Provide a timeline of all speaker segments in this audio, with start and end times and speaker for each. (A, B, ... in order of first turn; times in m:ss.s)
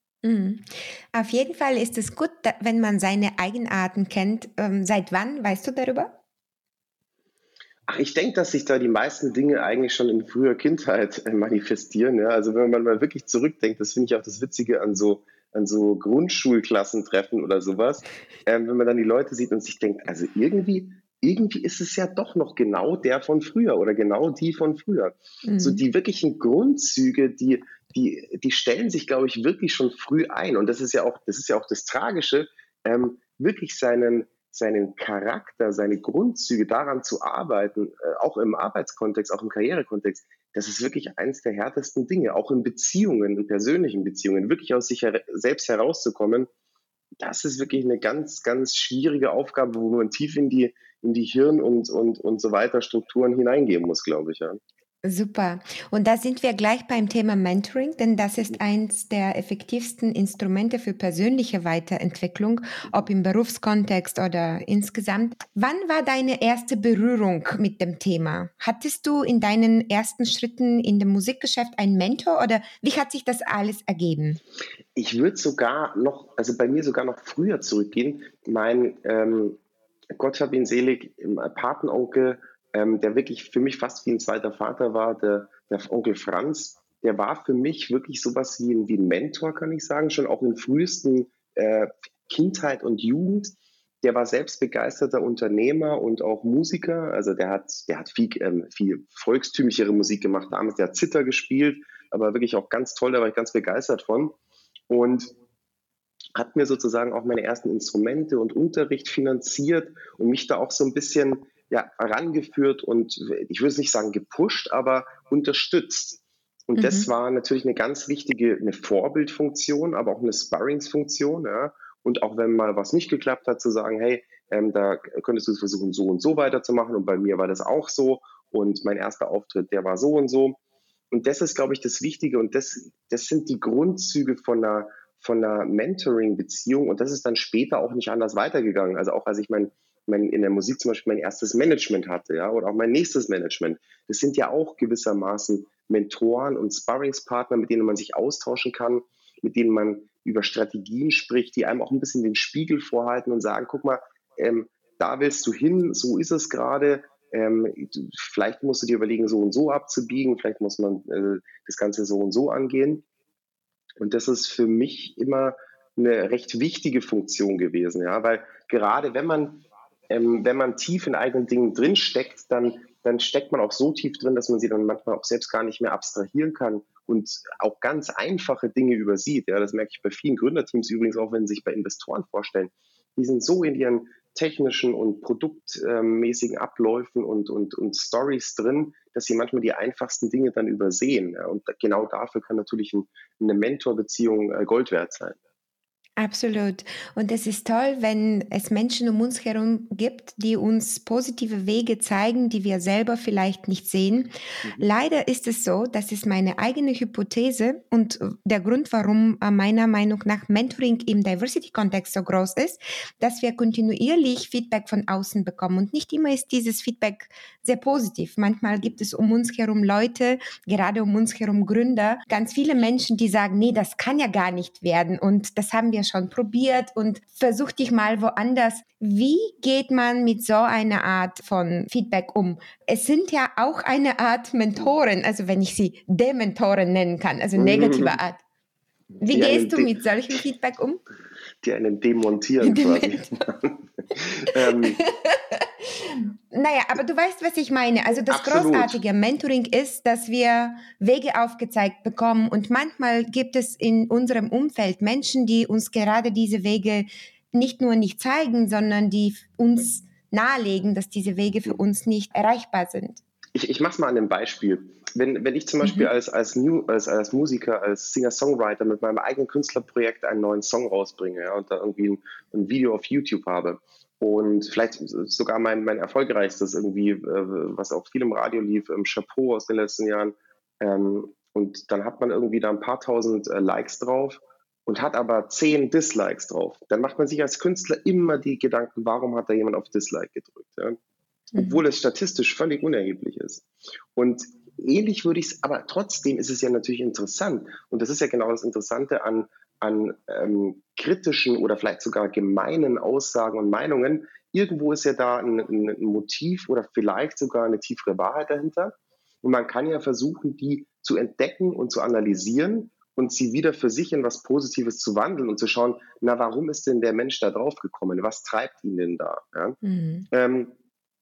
0:00.2-0:06.2 A
0:07.9-0:46.5 B
0:25.4-0:25.8 A
0:47.2-0:54.6 B
0:55.0-1:14.4 A
1:15.0-1:19.6 B
1:20.1-1:44.4 B
1:44.9-1:45.3 B
1:46.4-2:10.6 B
1:56.8-1:57.1 A
2:11.1-2:43.0 B
2:44.0-3:15.4 B
3:16.2-3:58.4 A
3:57.6-3:58.2 B
3:59.2-3:59.9 B
3:59.2-4:01.0 A
4:01.6-4:05.0 B
4:02.6-4:03.4 A
4:04.5-4:23.2 A
4:08.3-4:09.0 B
4:23.5-4:51.0 B
4:25.8-4:26.1 A
4:51.5-5:19.8 B
5:19.8-5:20.3 A
5:20.3-5:20.7 B